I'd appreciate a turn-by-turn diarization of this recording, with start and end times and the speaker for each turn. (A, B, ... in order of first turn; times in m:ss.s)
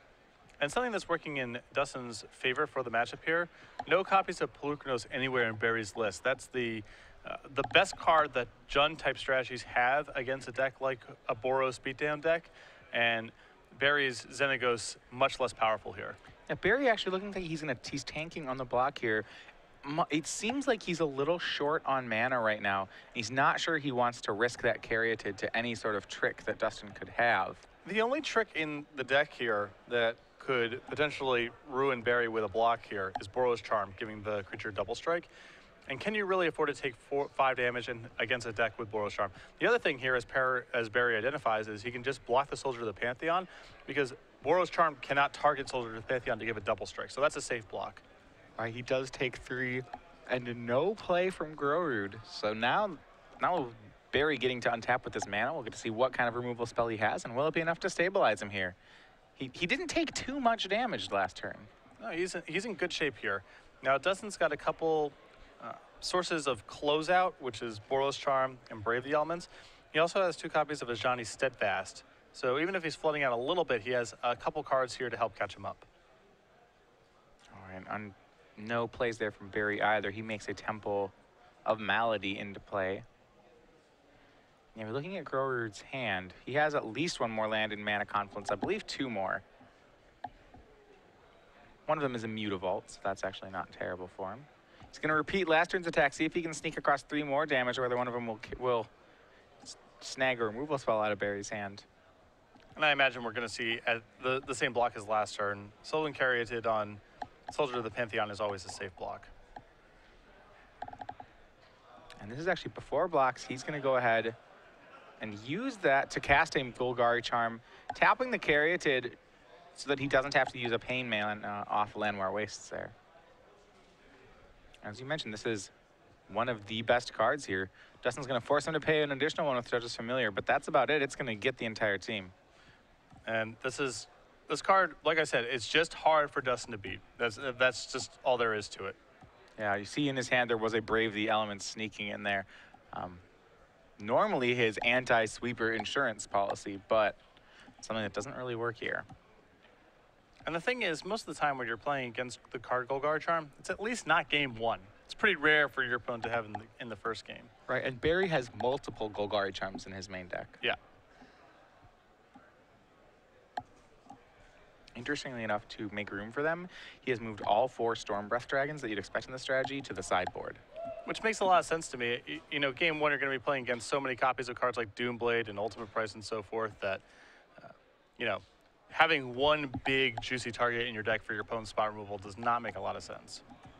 0:00.6-0:16.2 A
0:16.5-0:19.3 B
0:19.8-0:27.6 B
0:27.8-0:35.3 A
0:35.9-0:48.0 A
0:48.6-0:58.8 B
0:59.4-1:01.7 B
1:02.0-1:15.9 A
1:17.5-1:21.1 B
1:21.6-1:23.0 B
1:24.7-1:29.4 B
1:31.9-1:38.9 B
1:39.6-1:41.8 B
1:42.8-1:49.3 A
1:52.2-1:54.4 B
1:55.2-1:59.2 B
1:59.7-2:02.9 B
2:04.8-2:05.7 B
2:06.3-2:12.3 B
2:13.2-2:19.0 A
2:19.6-2:23.2 B
2:24.0-2:27.2 B
2:27.8-2:29.1 B
2:30.4-2:37.5 A
2:37.7-2:40.6 B
2:44.9-2:50.6 B
2:51.0-2:57.0 A
2:57.6-3:03.4 A